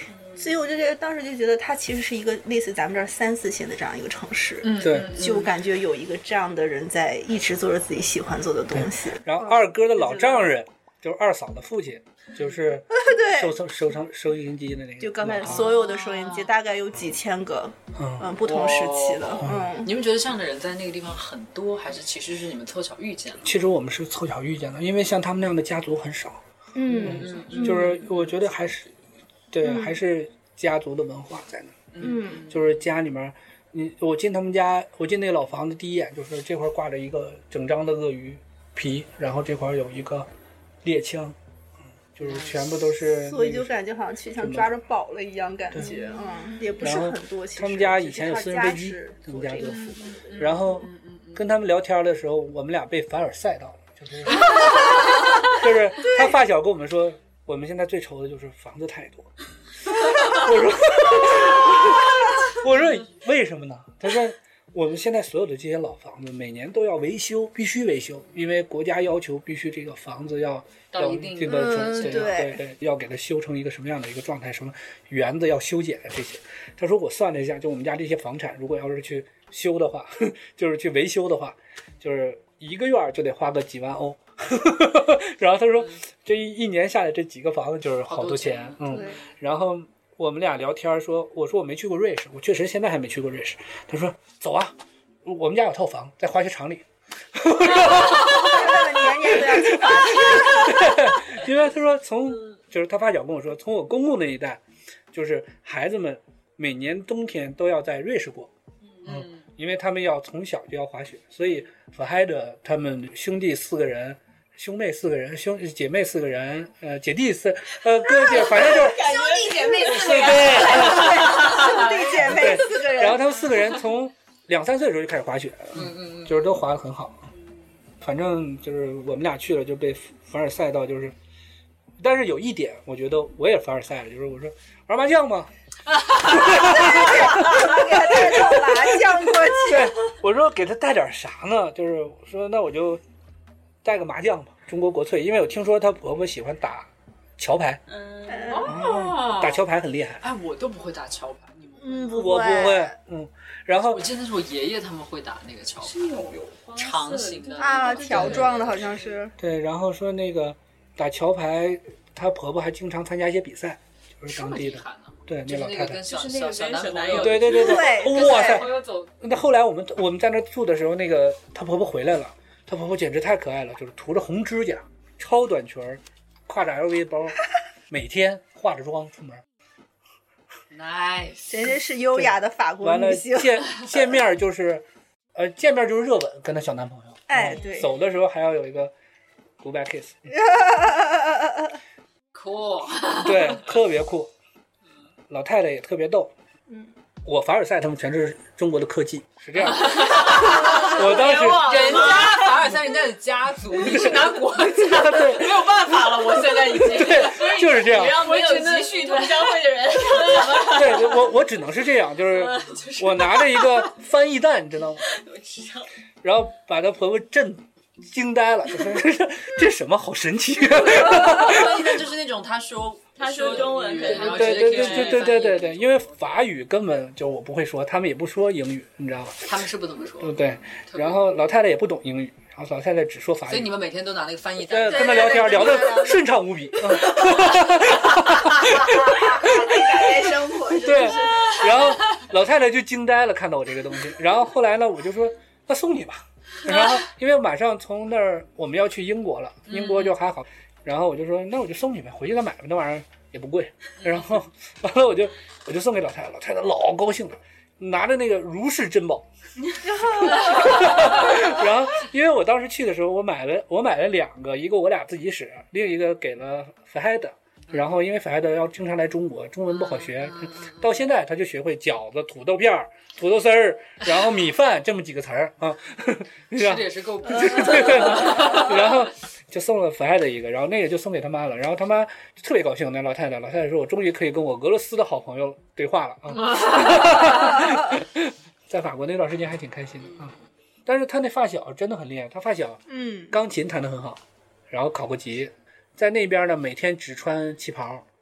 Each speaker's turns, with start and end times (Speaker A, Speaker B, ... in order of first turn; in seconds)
Speaker A: 0.1-0.5, 45.9-46.5, 118.0-122.0, 147.9-148.7, 155.8-159.1, 166.1-167.9, 200.0-202.7, 206.8-211.3, 212.2-213.9, 215.0-215.9, 223.2-225.4, 234.9-235.9
Speaker B: 0.4-10.5, 12.9-13.6, 15.0-19.9, 26.8-27.9, 29.6-30.0, 32.0-32.4, 43.2-50.5, 56.1-56.4, 71.4-72.6, 88.9-89.2, 98.0-101.3, 118.8-123.3, 136.3-140.0, 148.3-148.8, 151.8-152.9, 157.6-159.3, 167.5-168.7, 181.5-184.0, 187.3-187.9, 190.3-191.8, 238.6-241.9, 259.8-261.5, 292.9-293.3
Speaker C: 4.6-5.5, 15.4-16.5, 18.4-23.5, 26.9-28.2, 31.9-32.6, 42.2-42.6, 49.6-51.4, 70.9-72.4, 88.1-89.2, 109.0-109.4, 120.6-121.9, 125.7-126.4, 148.5-149.6, 150.2-152.3, 153.8-155.9, 156.8-159.0, 164.3-169.2, 180.7-181.8, 192.3-193.7, 199.6-211.2, 220.8-226.3, 229.4-231.2, 233.5-236.2, 237.1-237.6, 249.7-250.2, 269.8-270.8, 276.6-278.9, 286.4-287.6
Speaker D: 4.8-5.1, 8.7-15.7, 17.9-18.4, 19.4-19.8, 23.4-26.4, 26.9-28.9, 29.5-40.3, 40.8-41.4, 42.1-43.8, 44.4-44.8, 46.8-54.7, 55.4-59.3, 59.9-104.6, 105.1-108.5, 109.0-119.2, 119.8-127.3, 128.0-131.2, 132.0-135.5, 136.0-143.0, 143.8-147.8, 148.7-150.2, 152.1-154.1, 159.4-166.0, 167.1-179.4, 182.1-188.9, 189.6-190.3, 193.2-194.3, 195.3-196.3, 197.2-201.9, 203.7-205.7, 206.7-208.2, 210.7-215.1, 216.2-222.0, 224.0-229.6, 230.2-233.7, 234.7-259.3, 259.8-290.4, 290.9-298.1